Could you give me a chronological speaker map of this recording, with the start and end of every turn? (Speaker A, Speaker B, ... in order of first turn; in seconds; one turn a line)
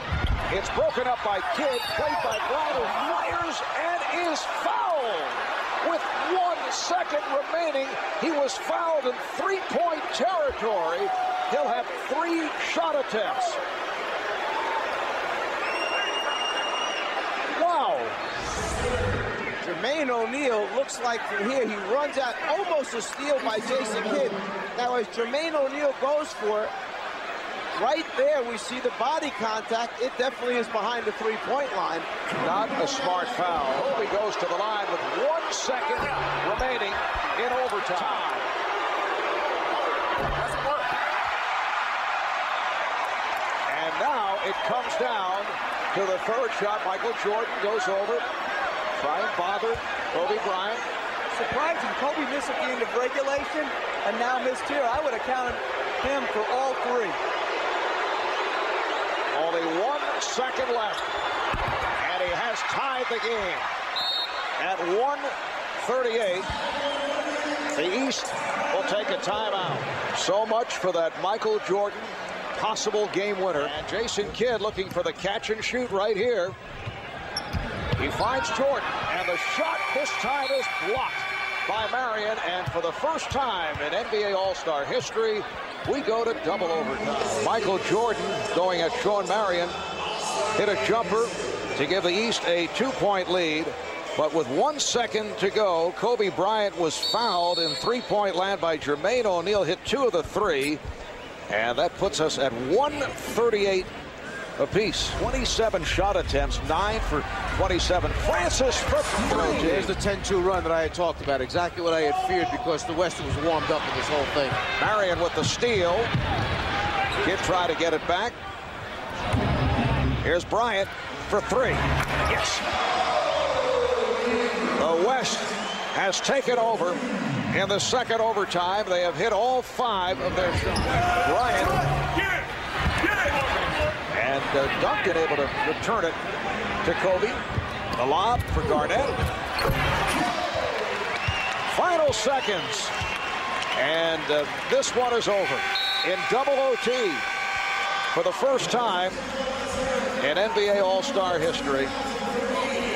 Speaker A: 0.5-13.6
Speaker A: 17.5-18.2
Speaker B: 19.6-26.7
Speaker B: 27.8-32.1
Speaker A: 32.4-38.5
Speaker A: 43.7-48.2
Speaker A: 49.0-50.9
Speaker C: 51.3-57.2
Speaker A: 59.3-61.1
Speaker A: 62.0-63.7
Speaker A: 64.6-66.5
Speaker A: 67.7-76.6
Speaker A: 78.0-89.8
Speaker A: 90.6-100.8
Speaker A: 101.5-103.9
Speaker A: 104.6-109.9
Speaker B: 109.3-114.6
Speaker A: 114.8-116.1
Speaker A: 117.2-118.3
Speaker A: 120.2-122.6
Speaker A: 124.8-127.0
Speaker A: 127.5-131.8
Speaker A: 134.1-136.2
Speaker A: 136.8-137.4
Speaker A: 138.0-139.2
Speaker A: 141.7-142.9
Speaker A: 143.8-147.3
Speaker A: 148.1-149.2
Speaker A: 150.2-151.9